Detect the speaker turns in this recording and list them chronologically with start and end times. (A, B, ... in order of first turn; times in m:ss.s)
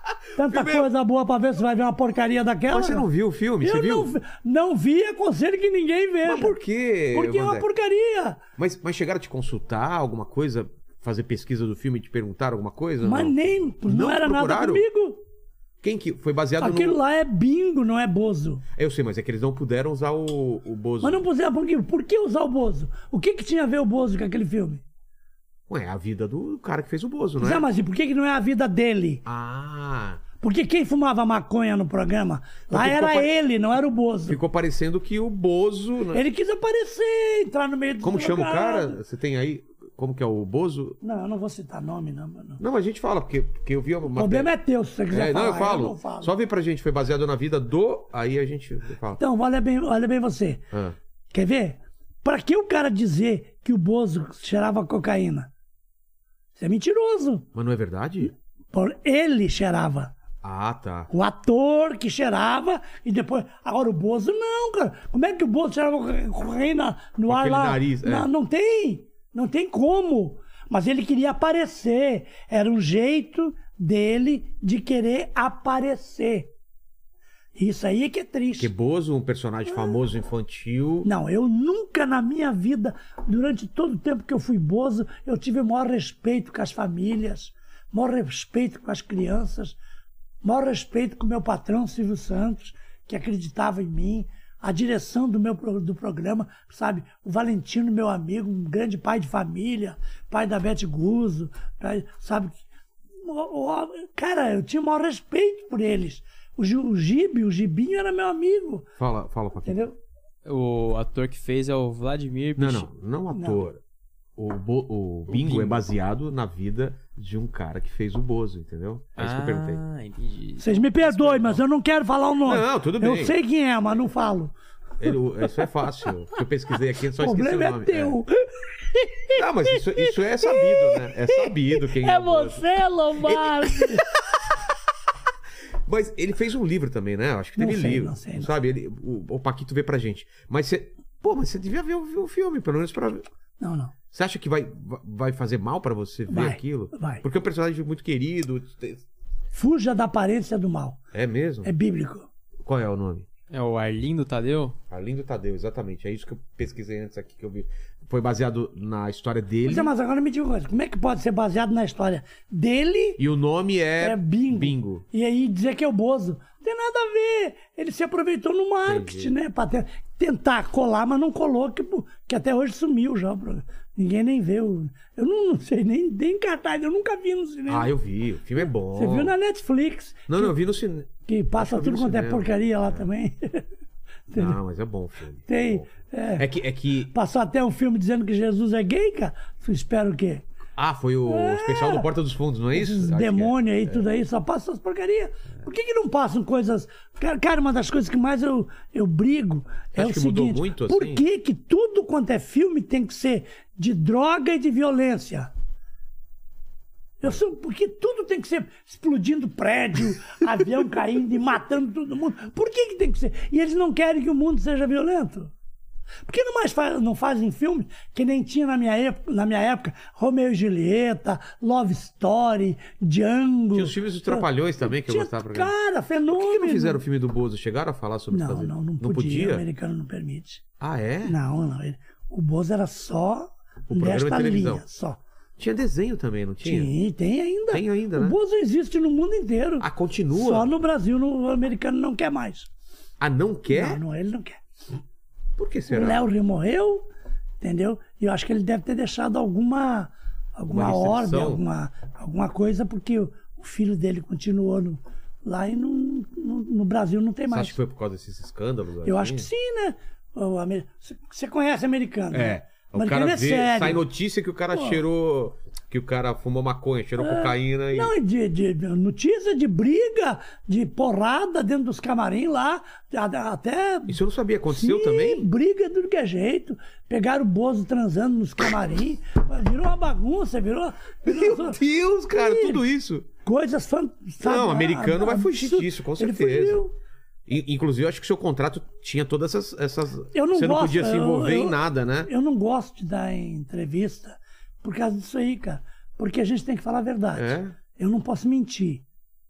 0:00.3-0:03.0 A
0:00.4-0:00.9 B
0:02.7-0:04.1 B
0:03.6-0:06.6 A
0:06.2-0:07.6 B
0:07.1-0:08.4 A
0:08.6-0:14.8 B
0:13.0-0:15.2 A
0:15.8-0:17.0 B
0:16.6-0:18.6 A
0:18.7-0:21.2 B
0:21.0-0:24.8 A
0:25.7-0:27.6 B
0:27.4-0:29.2 A
0:29.2-0:30.2 B
0:30.4-0:34.4 A
0:32.7-0:33.3 B
0:34.3-0:36.2 B
0:36.1-0:39.0 A
0:38.0-0:41.0 B
0:41.0-0:42.6 A
0:42.6-0:44.5 B
0:44.1-0:46.3 A
0:45.1-0:49.2 B
0:49.2-0:50.6 A
0:51.3-0:55.5 A
0:56.6-0:57.5 A
0:57.5-0:58.3 B
0:58.7-1:00.1 A
1:00.4-1:01.1 B
1:01.1-1:16.5 A
1:07.3-1:08.3 B
1:17.6-1:18.7 A
1:18.6-1:21.1 B
1:19.7-1:20.0 A
1:21.0-1:29.8 A
1:30.4-1:42.6 A
1:43.2-1:48.9 A
1:49.0-1:49.8 B
1:49.6-1:50.0 A
1:50.4-1:52.9 C
1:52.6-1:53.8 B
1:53.3-1:53.6 A
1:54.4-1:59.8 B
1:55.3-1:55.8 C
1:59.2-2:01.6 C
2:00.6-2:04.5 A
2:02.4-2:03.4 B
2:05.0-2:08.2 B
2:07.2-2:14.1 A
2:09.3-2:14.2 B
2:15.8-2:23.2 B
2:17.6-2:18.5 A
2:23.6-2:23.9 A
2:24.1-2:29.0 B
2:26.3-2:27.2 A
2:29.5-2:31.0 A
2:31.1-2:31.7 B
2:31.6-2:32.3 A
2:32.6-2:33.3 B
2:33.5-2:34.8 C
2:34.9-2:39.9 B
2:39.6-2:43.2 A
2:43.2-2:45.0 B
2:44.0-2:57.9 A
2:48.8-2:49.3 B
2:57.7-2:59.3 B
2:58.9-3:00.6 A
3:00.3-3:03.1 B
3:01.3-3:03.6 A
3:04.3-3:04.6 A
3:04.3-3:07.1 B
3:05.5-3:06.4 A
3:07.1-3:10.4 A
3:10.8-3:14.0 B
3:11.2-3:12.1 A
3:12.7-3:25.5 A
3:19.9-3:21.2 B
3:27.2-3:35.5 A
3:36.2-3:47.0 A
3:43.7-3:45.7 B
3:46.3-3:49.6 B
3:48.3-3:50.6 A
3:50.8-3:51.4 B
3:51.2-3:55.2 A
3:53.9-3:54.8 B
3:55.6-3:56.9 B
3:56.6-4:02.7 A
3:57.7-3:58.4 B
3:59.8-4:00.7 B
4:03.2-4:04.0 B
4:03.7-4:04.6 A
4:05.6-4:06.3 B
4:05.9-4:07.0 A
4:07.6-4:17.8 A
4:10.7-4:11.6 B
4:17.5-4:19.5 B
4:19.0-4:24.0 A
4:22.3-4:28.1 B
4:24.7-4:25.0 A
4:27.2-4:42.8 A
4:34.1-4:35.5 B
4:41.2-4:43.3 B
4:43.4-4:46.9 A
4:44.4-4:46.8 B
4:47.5-4:52.3 B
4:50.3-4:59.0 A
4:57.3-4:57.7 B